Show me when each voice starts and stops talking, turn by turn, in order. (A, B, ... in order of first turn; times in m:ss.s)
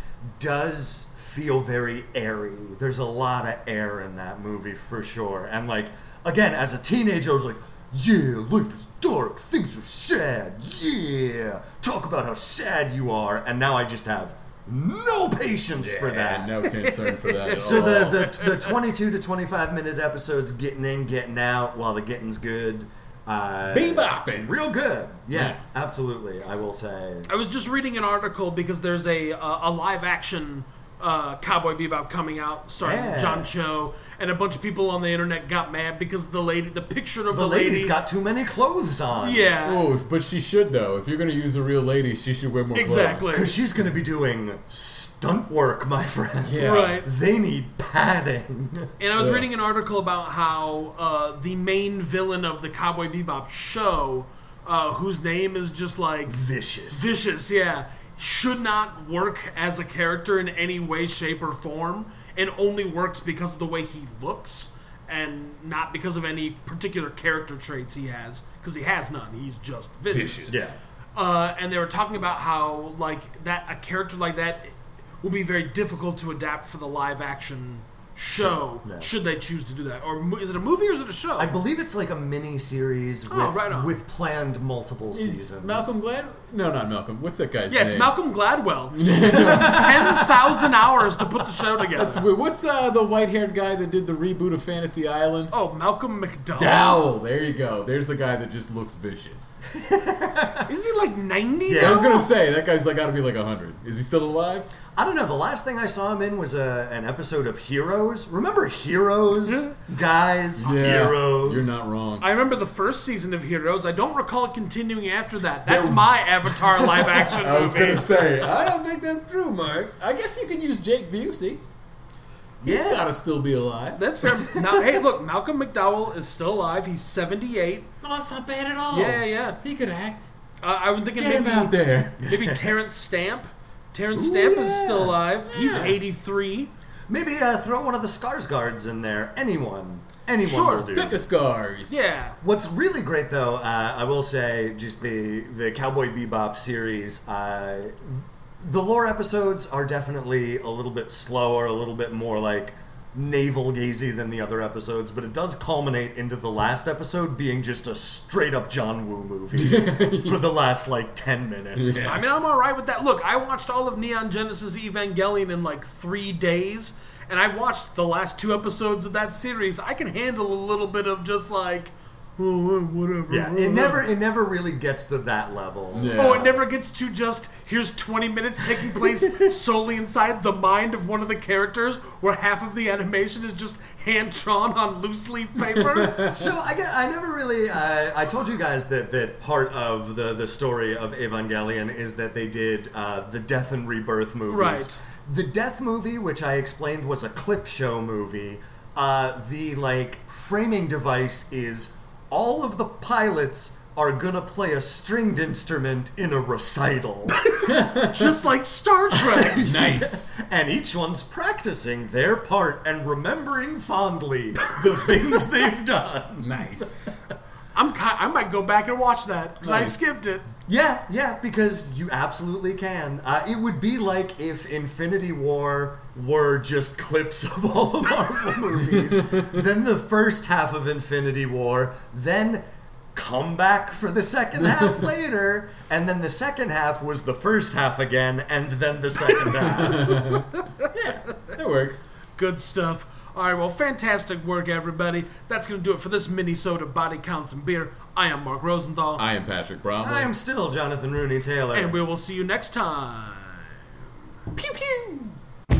0:00.4-0:16.6 A
0:15.8-0:18.4 B
0:16.8-0:18.7 C
0:17.6-0:27.3 A
0:23.7-0:24.6 B
0:25.3-0:25.6 B
0:27.3-0:37.9 C
0:32.8-0:33.5 A
0:37.3-0:39.5 A
0:39.2-0:39.9 C
0:39.6-0:43.3 B
0:42.7-0:43.5 C
0:43.3-0:48.9 A
0:46.5-0:47.0 B
0:46.6-0:47.1 C
0:49.0-0:56.4 C
0:49.2-0:49.5 B
0:56.3-0:57.4 A
0:56.9-1:10.6 C
1:10.1-1:10.7 B
1:10.5-1:10.8 A
1:11.2-1:21.5 C
1:18.3-1:19.1 A
1:21.4-1:25.9 A
1:23.3-1:23.9 C
1:25.1-1:28.1 B
1:27.7-1:32.3 C
1:28.9-1:30.7 B
1:29.4-1:30.0 A
1:31.9-1:35.5 B
1:35.5-1:37.0 C
1:36.6-1:39.5 B
1:39.7-1:40.7 A
1:40.6-1:42.3 C
1:41.6-1:42.2 A
1:41.8-1:44.7 B
1:44.9-1:51.8 A
1:49.4-1:49.7 C
1:50.6-1:52.3 B
1:52.2-1:58.2 C
1:55.7-1:56.0 B
1:56.6-1:57.3 A
1:57.3-2:01.6 B
2:02.6-2:03.1 A
2:02.6-2:04.0 B
2:04.0-2:07.9 C
2:04.5-2:04.8 A
2:08.0-2:10.3 B
2:08.9-2:09.6 C
2:10.6-2:16.7 C
2:11.2-2:12.2 B
2:12.2-2:12.7 A
2:14.1-2:15.2 A
2:15.5-2:16.0 B
2:15.7-2:16.0 A
2:17.1-2:21.2 A
2:20.4-2:20.9 C
2:20.9-2:22.0 B
2:21.9-2:22.4 C
2:22.4-2:42.2 A
2:39.5-2:40.4 B
2:41.8-2:42.2 B
2:42.0-2:54.0 C
2:53.3-2:56.6 A
2:55.9-2:56.5 B
2:56.2-3:06.2 C
2:58.8-2:59.6 A
3:05.6-3:06.5 B
3:06.2-3:27.4 A
3:14.5-3:14.9 C
3:27.3-3:29.7 C
3:27.6-3:28.3 B
3:29.1-3:36.9 A
3:29.6-3:30.4 B
3:36.4-3:37.2 B
3:37.7-3:40.5 C
3:39.6-3:40.0 B
3:40.7-4:00.2 A
3:49.2-3:49.5 B
3:54.6-3:55.1 B
3:59.3-4:01.5 C
3:59.6-4:02.1 B
4:02.4-4:09.2 C
4:09.2-4:10.3 B
4:10.0-4:12.0 A
4:11.7-4:13.7 C
4:14.5-4:15.3 B